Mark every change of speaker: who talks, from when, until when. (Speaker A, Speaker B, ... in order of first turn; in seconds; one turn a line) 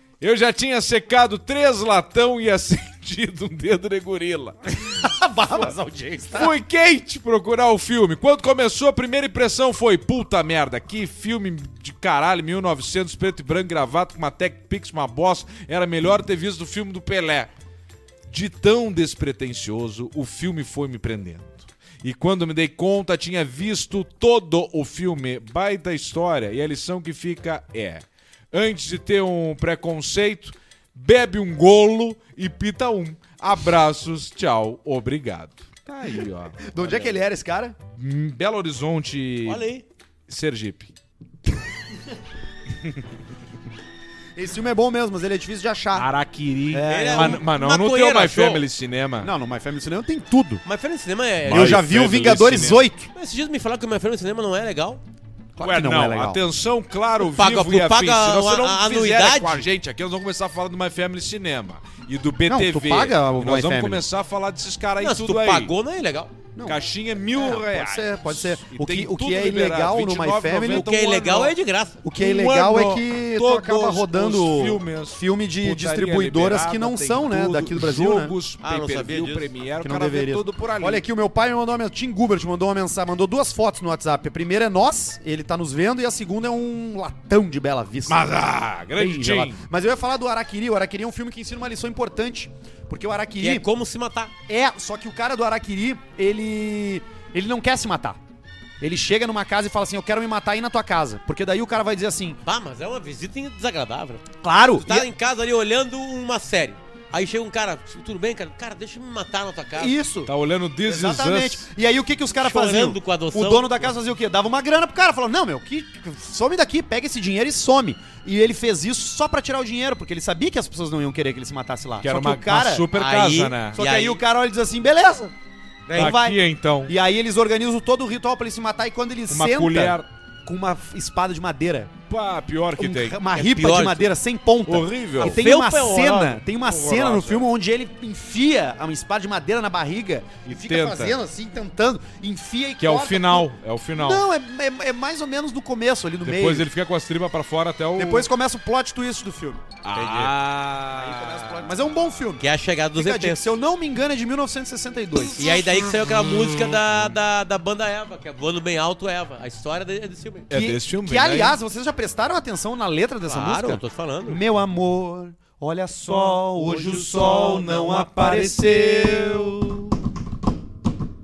Speaker A: 0.2-5.0
Speaker B: 4.9-6.5
Speaker A: 6.3-17.5
Speaker A: 18.3-36.6
Speaker B: 35.9-37.8
Speaker C: 36.8-37.1
Speaker A: 37.8-39.7
Speaker C: 39.5-39.8
Speaker A: 40.3-40.9
Speaker B: 44.3-46.1
Speaker A: 45.9-49.3
Speaker B: 46.7-47.4
Speaker C: 46.9-48.6
Speaker B: 49.2-50.6
Speaker C: 50.6-51.8
Speaker B: 51.4-53.1
Speaker A: 51.5-52.8
Speaker C: 53.1-55.0
Speaker B: 55.5-56.4
Speaker A: 55.6-65.7
Speaker C: 57.2-59.7
Speaker B: 62.5-64.0
Speaker C: 65.0-66.3
Speaker B: 66.5-66.8
Speaker A: 66.6-71.5
Speaker B: 67.3-70.9
Speaker C: 70.7-72.0
Speaker B: 72.0-78.3
Speaker A: 72.2-81.0
Speaker C: 78.6-79.5
Speaker B: 79.8-88.4
Speaker A: 88.1-89.6
Speaker B: 88.9-93.7
Speaker C: 93.4-94.3
Speaker B: 94.5-98.2
Speaker B: 98.8-102.4
Speaker C: 102.4-104.2
Speaker B: 104.4-105.1
Speaker C: 104.8-110.0
Speaker B: 109.8-110.3
Speaker A: 110.2-111.6
Speaker B: 110.8-122.9
Speaker C: 112.4-113.9
Speaker A: 122.0-123.8
Speaker C: 122.9-124.2
Speaker B: 123.7-125.3
Speaker C: 125.9-126.2
Speaker B: 125.9-131.9
Speaker A: 126.0-126.9
Speaker A: 129.3-130.1
Speaker A: 132.1-133.2
Speaker B: 132.8-146.7
Speaker C: 133.3-134.1
Speaker A: 134.7-135.4
Speaker C: 135.2-136.4
Speaker A: 136.6-137.4
Speaker A: 140.4-141.2
Speaker A: 142.8-144.2
Speaker A: 146.2-148.3
Speaker B: 148.0-155.5
Speaker A: 149.8-151.7
Speaker C: 152.4-153.5
Speaker C: 155.4-160.5
Speaker A: 160.5-161.6
Speaker B: 160.5-169.6
Speaker C: 163.2-164.4
Speaker A: 166.6-169.9